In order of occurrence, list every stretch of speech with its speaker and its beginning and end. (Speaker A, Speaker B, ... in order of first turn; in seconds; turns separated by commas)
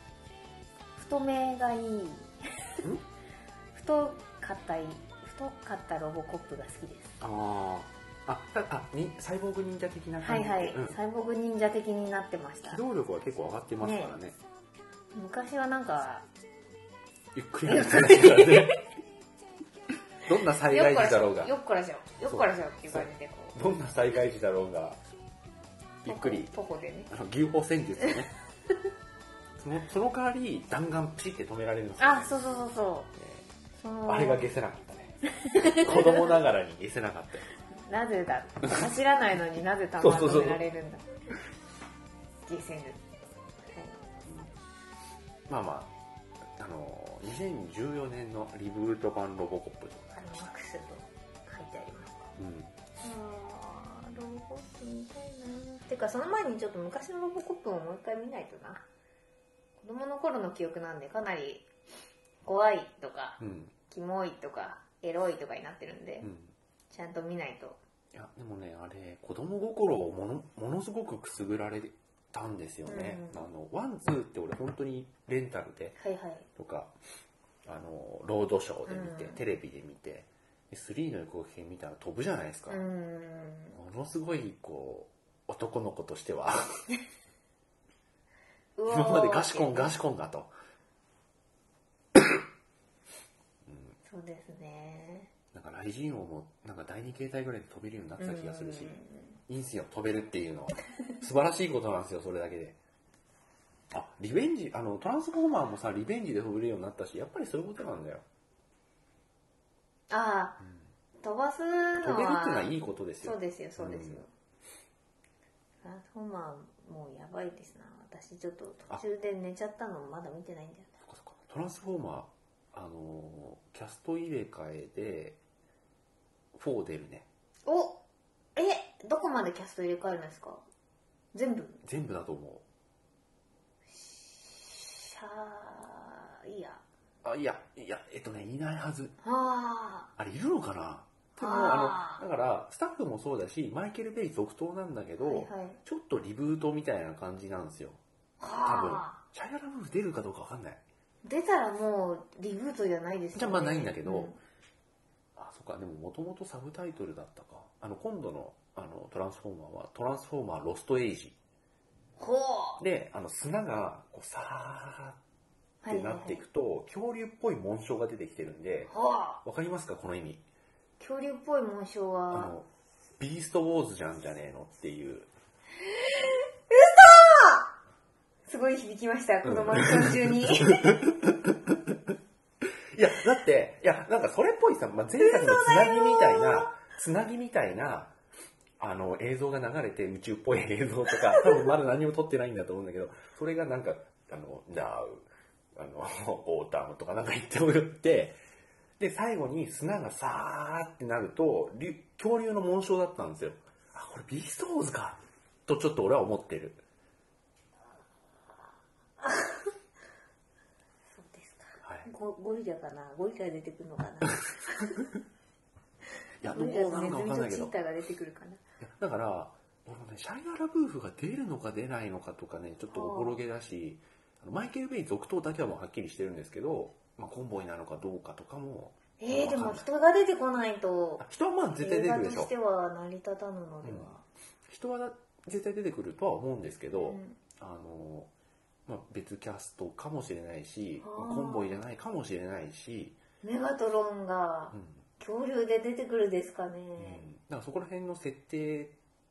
Speaker A: 1.0-2.8, Speaker A: 3.7-7.2, Speaker B: 7.2-11.0, Speaker A: 10.2-12.8, Speaker B: 12.7-14.4, Speaker A: 13.8-14.2, Speaker A: 15.1-16.3, Speaker B: 17.3-18.8, Speaker A: 17.7-18.8, Speaker B: 20.2-21.5, Speaker A: 20.6-23.6, Speaker B: 22.3-25.0, Speaker B: 26.0-26.5, Speaker A: 26.1-27.1, Speaker B: 27.1-28.3, Speaker B: 29.6-32.3, Speaker A: 32.0-33.1, Speaker B: 33.2-33.5, Speaker A: 33.8-34.5, Speaker B: 34.1-37.5, Speaker A: 35.4-36.4, Speaker A: 37.7-41.1, Speaker B: 40.0-40.6, Speaker A: 42.5-43.0, Speaker A: 43.7-44.0, Speaker B: 44.2-44.5, Speaker B: 45.5-45.9, Speaker B: 46.6-50.4, Speaker A: 50.1-52.3, Speaker B: 52.4-52.7, Speaker A: 53.0-58.9, Speaker A: 59.8-61.7, Speaker A: 62.4-66.3, Speaker B: 63.4-63.8, Speaker B: 66.2-66.5, Speaker A: 66.9-67.8, Speaker B: 68.1-76.0, Speaker A: 72.9-73.4, Speaker A: 76.0-76.5, Speaker B: 76.6-77.0, Speaker B: 77.7-82.8, Speaker A: 78.9-79.4, Speaker A: 82.7-83.8, Speaker B: 83.8-86.6, Speaker A: 88.8-90.0, Speaker B: 88.9-90.5, Speaker B: 93.7-94.0, Speaker A: 94.0-95.3, Speaker B: 95.5-102.8, Speaker A: 98.2-99.4, Speaker B: 103.9-108.3, Speaker A: 110.1-110.6, Speaker A: 111.2-114.3, Speaker B: 112.0-114.3, Speaker A: 115.8-121.0, Speaker B: 121.0-125.4, Speaker B: 126.5-127.3, Speaker A: 127.7-128.0, Speaker A: 128.6-130.6, Speaker A: 131.3-131.8, Speaker B: 131.8-132.7, Speaker A: 133.9-136.8, Speaker B: 137.2-139.2, Speaker A: 139.2-140.1, Speaker B: 140.2-148.0, Speaker A: 141.4-142.2, Speaker A: 145.2-145.8, Speaker A: 148.4-149.2, Speaker B: 148.6-150.8, Speaker A: 151.2-154.4, Speaker B: 153.3-154.4, Speaker B: 155.4-161.4, Speaker A: 162.2-162.8, Speaker B: 162.8-165.2, Speaker A: 165.8-166.4, Speaker B: 165.9-168.9, Speaker A: 168.9-169.4, Speaker B: 169.4-170.4, Speaker A: 171.0-172.6, Speaker B: 172.3-172.7, Speaker B: 173.2-175.3, Speaker A: 176.1-177.7, Speaker A: 178.5-181.0, Speaker B: 179.4-182.1, Speaker B: 182.9-188.2, Speaker A: 185.2-186.7, Speaker B: 188.8-198.4, Speaker B: 199.0-206.8, Speaker A: 209.2-209.7, Speaker A: 211.1-215.1, Speaker B: 211.8-212.1, Speaker B: 216.4-217.8, Speaker A: 216.5-218.6, Speaker B: 218.8-229.9, Speaker A: 222.9-223.4, Speaker A: 229.2-234.2, Speaker B: 231.2-232.5, Speaker B: 233.8-234.1, Speaker B: 234.7-238.3, Speaker A: 236.9-237.4, Speaker B: 238.9-243.2, Speaker A: 241.0-241.8, Speaker A: 243.4-247.3, Speaker B: 244.7-245.0, Speaker B: 247.0-249.0